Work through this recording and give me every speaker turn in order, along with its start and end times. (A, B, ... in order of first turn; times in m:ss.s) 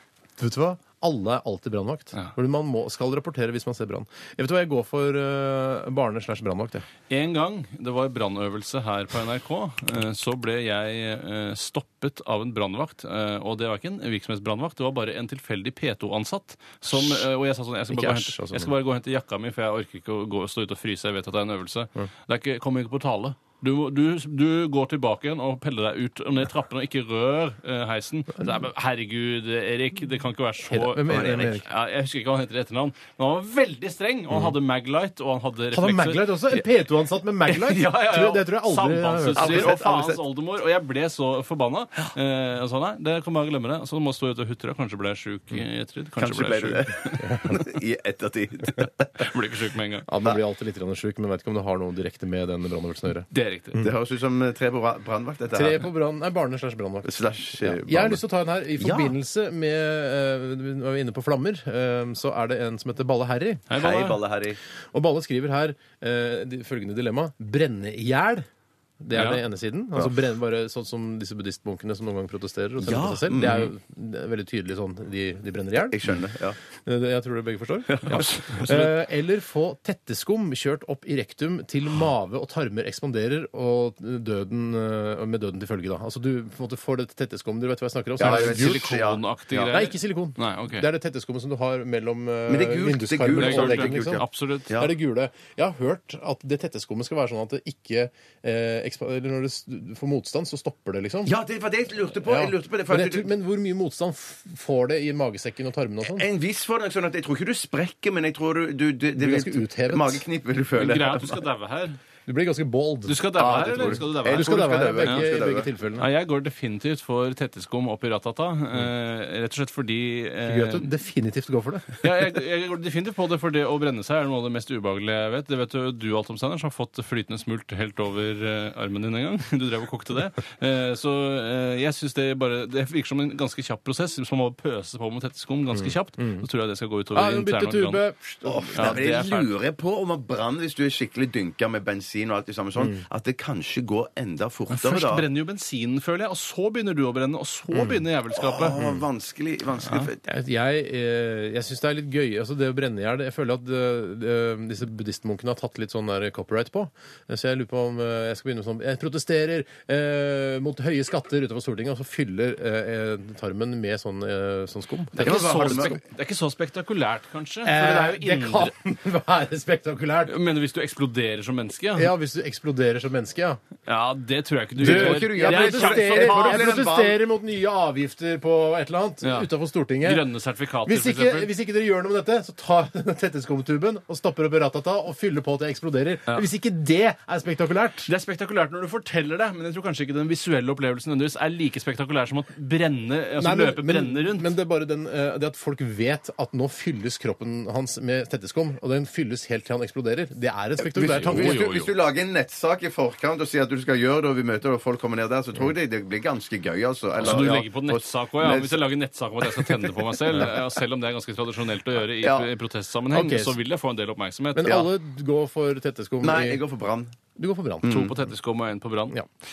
0:00.4-0:06.8 A
0:07.1-0:36.7 B
0:16.9-0:17.2 A
0:17.9-0:18.7 A
0:30.6-0:31.6 A
0:35.7-0:39.7 A
0:37.4-0:47.2 B
0:39.3-0:40.2 C
0:46.2-0:49.1 C
0:47.2-0:47.5 A
0:49.2-0:50.0 B
0:50.1-0:53.9 A
0:53.3-0:53.8 B
0:53.8-0:55.9 C
0:55.5-1:03.6 A
0:57.0-0:58.2 C
0:58.8-0:59.1 C
1:03.7-1:04.2 B
1:03.7-1:04.6 C
1:04.9-1:08.5 A
1:09.0-1:16.1 A
1:09.1-1:09.4 B
1:12.8-1:13.7 C
1:15.9-1:16.6 C
1:16.8-1:28.9 A
1:17.9-1:18.8 C
1:18.0-1:18.7 B
1:28.2-1:29.7 C
1:28.2-1:30.9 B
1:29.7-1:41.3 A
1:32.5-1:34.9 C
1:33.3-1:34.7 B
1:41.2-1:43.2 C
1:42.2-1:46.3 A
1:46.0-1:51.4 C
1:49.1-1:50.2 A
1:50.8-1:52.0 B
1:52.3-1:56.1 A
1:53.1-1:55.3 B
1:53.4-1:55.7 C
1:56.0-2:00.9 B
2:00.4-2:02.1 A
2:02.0-2:18.0 B
2:15.7-2:16.4 A
2:17.1-2:19.0 A
2:18.4-2:25.2 C
2:18.7-2:19.5 B
2:22.8-2:23.0 A
2:24.7-2:28.8 B
2:28.3-2:30.2 C
2:28.8-2:29.0 A
2:29.8-2:30.1 B
2:30.2-2:46.0 A
2:45.1-2:48.7 B
2:45.2-2:46.0 C
2:47.6-2:50.4 A
2:50.3-2:52.1 B
2:51.9-2:53.6 A
2:53.8-2:56.8 B
2:54.8-3:00.3 A
2:54.8-2:57.2 C
2:59.2-2:59.5 B
3:00.0-3:01.5 B
3:00.8-3:08.1 A
3:08.0-3:14.5 B
3:13.4-3:21.6 A
3:20.8-3:28.8 C
3:21.1-3:21.9 B
3:27.2-3:34.8 B
3:29.4-3:30.4 C
3:32.2-3:32.5 C
3:33.1-3:33.6 A
3:34.5-3:36.6 A
3:36.2-3:37.2 C
3:37.4-3:38.0 A
3:37.8-3:38.2 C
3:37.8-3:39.2 B